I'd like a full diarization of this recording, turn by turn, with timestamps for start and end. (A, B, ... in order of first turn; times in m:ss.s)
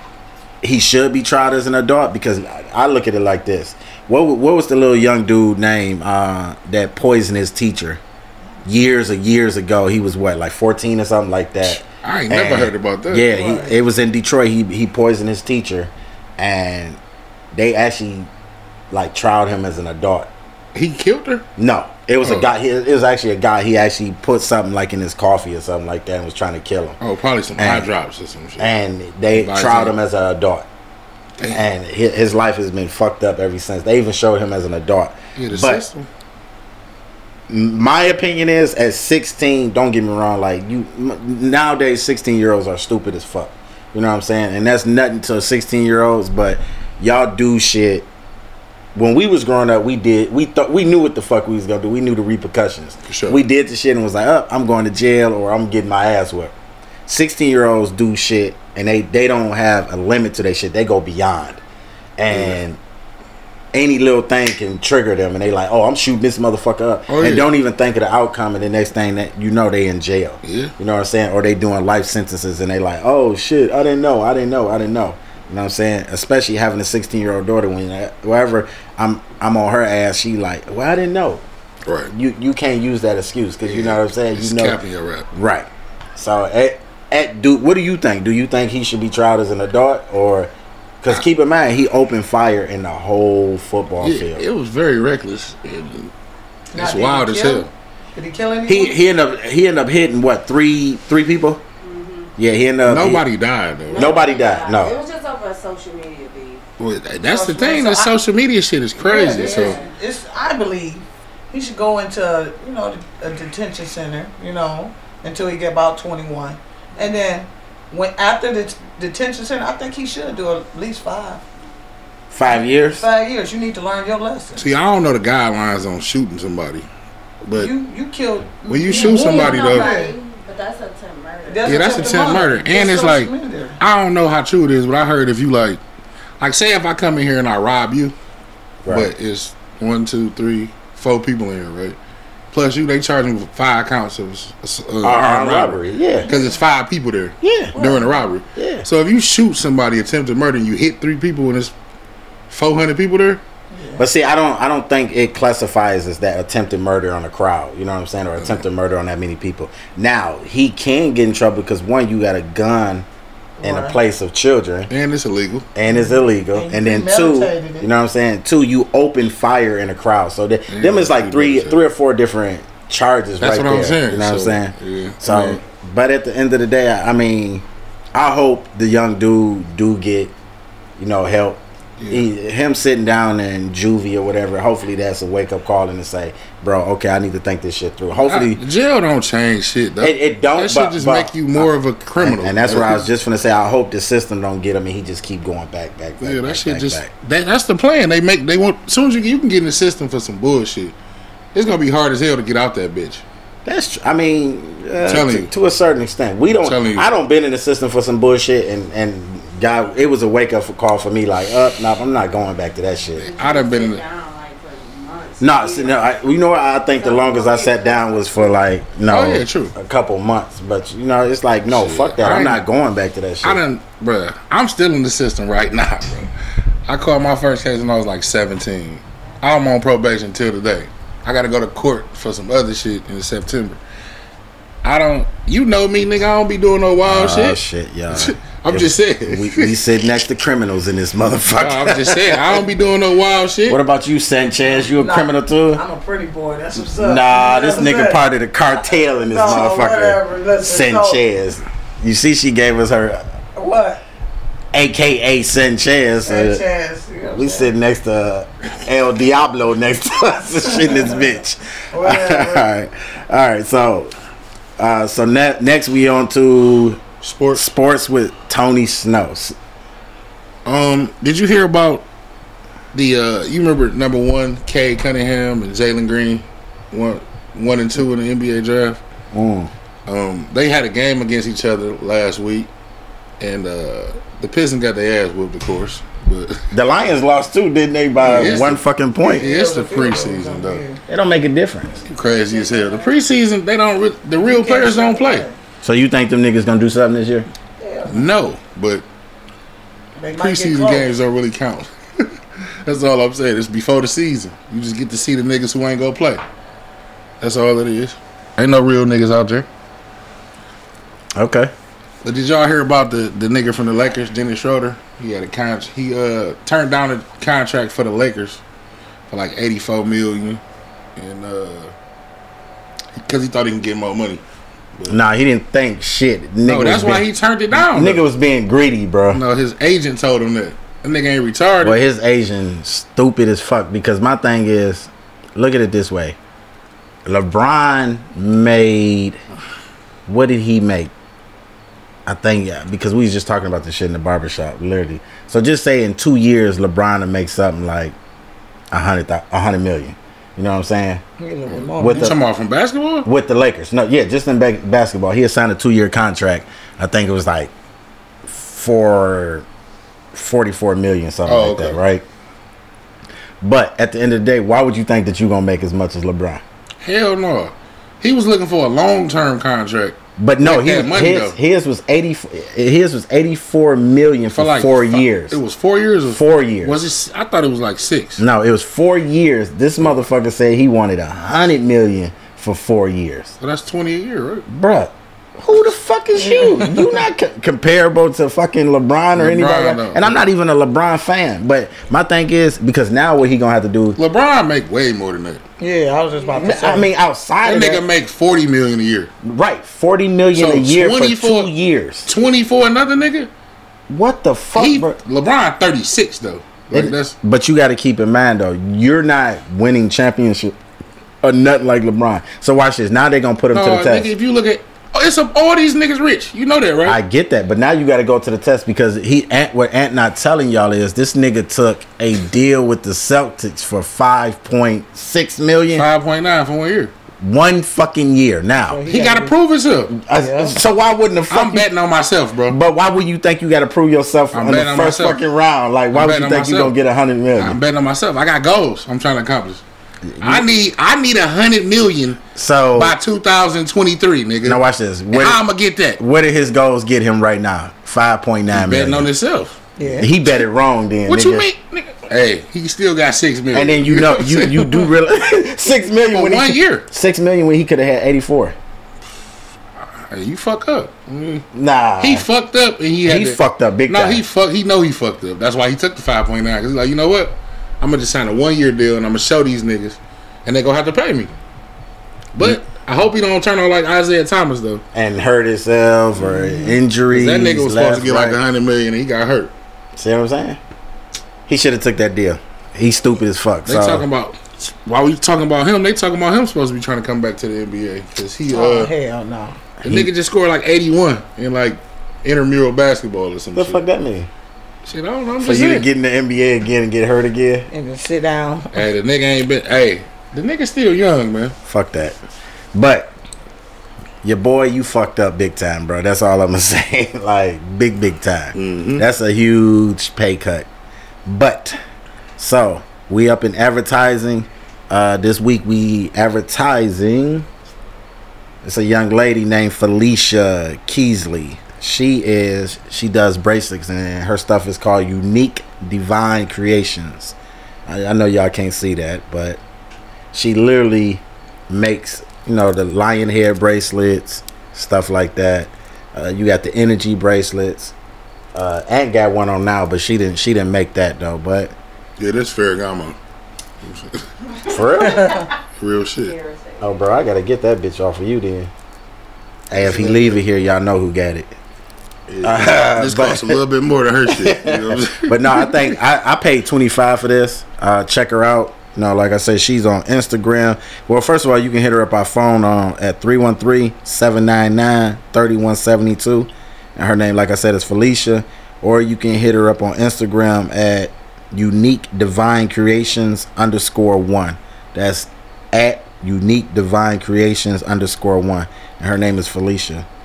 0:00.6-0:08.0 A
0:08.6-0:17.0 A
0:12.0-0:13.3 B
0:13.3-0:13.8 C
0:17.5-0:18.3 A
0:18.9-0:20.3 A
0:20.8-0:21.5 B
0:21.6-0:27.0 A
0:22.2-0:22.5 B
0:27.0-0:28.7 B
0:27.6-0:27.9 A
0:28.6-0:30.7 A
0:29.4-0:29.9 B
0:31.4-0:31.6 B
0:31.4-0:35.8 A
0:35.4-0:36.1 B
0:37.5-0:48.1 A
0:49.0-0:56.6 A
0:53.1-0:53.4 B
0:57.1-1:01.6 A
1:02.2-1:02.8 A
1:02.3-1:02.6 B
1:03.7-1:21.4 A
1:07.1-1:07.4 B
1:10.4-1:10.7 B
1:21.9-1:22.1 B
1:22.1-1:24.8 A
1:23.7-1:25.3 B
1:25.3-1:34.4 A
1:34.0-1:36.1 B
1:36.7-1:39.0 C
1:36.8-1:37.7 B
1:38.7-1:41.6 A
1:41.8-1:42.3 D
1:42.4-1:43.3 A
1:42.9-1:44.2 B
1:43.9-1:46.6 D
1:43.9-1:45.0 A
1:46.8-1:49.8 B
1:47.3-1:48.1 C
1:49.0-2:01.4 C
1:49.1-1:49.9 D
2:02.3-2:03.0 A
2:02.9-2:04.6 C
2:04.6-2:06.9 B
2:07.4-2:07.7 B
2:07.6-2:10.2 C
2:08.7-2:10.0 B
2:08.9-2:12.3 D
2:11.4-2:13.8 C
2:11.6-2:15.8 B
2:16.4-2:18.1 B
2:18.8-2:19.1 A
2:18.9-2:22.0 B
2:22.5-2:31.7 B
2:25.0-2:26.3 A
2:26.3-2:26.6 C
2:27.4-2:27.8 A
2:27.8-2:28.3 C
2:28.6-2:28.9 A
2:32.5-2:33.4 B
2:33.7-2:34.0 C
2:34.0-2:43.1 A
2:43.6-2:44.0 C
2:43.6-2:44.9 A
2:44.9-2:45.6 B
2:45.8-3:00.3 A
2:45.9-2:47.9 C
2:50.7-2:51.8 B
2:53.4-2:55.6 B
3:01.0-3:08.6 A
3:02.0-3:02.2 B
3:08.2-3:13.1 B
3:10.0-3:17.1 A
3:16.2-3:21.0 B
3:21.5-3:23.2 B
3:23.6-3:33.3 A
3:25.0-3:25.5 B
3:26.6-3:27.1 B
3:33.2-3:36.1 D
3:33.2-3:34.0 B
3:35.4-3:43.6 A
3:36.9-3:38.7 D
3:39.1-3:39.7 B
3:41.7-3:42.6 B
3:43.4-3:46.3 B
3:46.9-3:53.8 B
3:54.8-3:57.6 B
3:57.0-4:02.7 A
3:58.1-3:59.8 B
4:01.6-4:03.8 B
4:03.7-4:05.8 A
4:04.8-4:08.2 C
4:06.9-4:13.3 A
4:09.3-4:11.2 C
4:13.6-4:14.0 C
4:14.7-4:16.6 A
4:16.2-4:17.7 C
4:17.3-4:24.1 A
4:20.9-4:21.2 C
4:21.9-4:22.7 C
4:24.8-4:27.0 A
4:27.2-4:27.6 B
4:27.5-4:29.6 A
4:30.6-4:32.1 B
4:32.9-4:39.0 B
4:39.3-4:39.7 A
4:40.1-4:42.7 B
4:43.4-4:46.6 B
4:46.7-4:49.5 A
4:48.2-4:48.8 B
4:49.2-4:51.0 C
4:49.4-4:50.8 B
4:51.1-4:52.0 A
4:52.1-4:55.5 B
4:52.5-4:53.1 C
4:54.4-4:55.6 C
4:55.8-4:57.5 A
4:57.8-4:58.3 C
4:58.1-4:59.0 B
5:00.2-5:01.1 C
5:00.3-5:02.3 B
5:02.8-5:06.4 B
5:07.4-5:09.7 B
5:11.4-5:11.7 A
5:12.2-5:18.6 B
5:19.3-5:20.6 B
5:21.2-5:21.9 B
5:23.2-5:24.4 B
5:25.1-5:29.4 A
5:26.6-5:28.2 B
5:29.3-5:32.0 B
5:31.8-5:36.4 A
5:37.3-5:39.4 A
5:40.3-5:41.1 A
5:42.3-5:48.1 A
5:48.9-5:51.2 A
5:51.4-5:52.4 C
5:51.7-5:53.3 B
5:52.0-5:52.4 A
5:53.2-5:57.7 A
5:58.4-5:59.6 A
6:00.3-6:02.2 A
6:01.4-6:02.0 B
6:03.6-6:06.6 A
6:07.0-6:11.6 B
6:10.4-6:15.6 A
6:14.6-6:18.4 B
6:16.3-6:17.0 A
6:18.4-6:23.6 A
6:23.6-6:24.6 B
6:24.7-6:34.2 A
6:26.4-6:27.2 C
6:29.4-6:30.4 B
6:34.2-6:35.6 B
6:35.8-6:37.1 C
6:36.4-6:36.8 D
6:36.5-6:38.0 A
6:37.6-6:39.3 B
6:39.4-6:42.3 A
6:40.5-6:41.7 B
6:42.3-6:43.5 B
6:44.1-6:45.2 A
6:44.8-6:47.4 B
6:46.9-6:50.8 A
6:51.4-6:54.3 A
6:53.7-6:57.2 B
6:57.0-7:06.1 A
7:05.9-7:07.1 B
7:07.4-7:09.0 A
7:08.9-7:09.5 C
7:09.1-7:10.1 B
7:10.1-7:11.9 A
7:10.4-7:10.8 C
7:11.5-7:12.8 B
7:12.7-7:17.8 A
7:14.5-7:15.4 B
7:16.1-7:16.9 B
7:17.6-7:19.8 B
7:20.3-7:20.7 A
7:20.4-7:22.4 B
7:22.6-7:23.2 A
7:22.9-7:26.2 B
7:24.6-7:25.6 A
7:26.2-7:29.3 A
7:28.7-7:29.8 B
7:30.0-7:30.3 C
7:30.0-7:31.7 A
7:31.3-7:35.1 B
7:33.7-7:38.8 A
7:36.3-7:37.1 B
7:40.2-7:41.6 B
7:41.7-7:42.5 A
7:42.2-7:51.5 B
7:43.2-7:44.4 A
7:52.6-7:55.0 B
7:55.1-7:58.6 A
7:57.3-7:59.7 B
8:00.2-8:00.8 A
8:01.7-8:04.3 A
8:03.9-8:09.1 B
8:08.7-8:09.8 C
8:10.0-8:10.3 A
8:10.0-8:14.0 B
8:13.8-8:14.5 A
8:15.0-8:16.1 B
8:15.6-8:17.9 A
8:17.9-8:19.0 C
8:18.9-8:21.8 B
8:21.8-8:22.4 A
8:22.9-8:23.3 A
8:24.4-8:30.9 A
8:28.8-8:29.2 B
8:31.4-8:32.0 A
8:32.6-8:37.7 A
8:38.8-8:47.6 A
8:48.1-8:49.8 A
8:50.5-8:58.1 A
8:58.8-9:01.9 A
9:02.4-9:03.4 B
9:04.0-9:04.4 B
9:04.9-9:05.6 A
9:05.2-9:05.6 C
9:06.0-9:06.6 B
9:06.4-9:07.3 D
9:07.0-9:08.9 A
9:09.9-9:11.7 A
9:09.9-9:10.6 B
9:12.5-9:16.1 B
9:12.6-9:13.8 A
9:14.5-9:40.3 A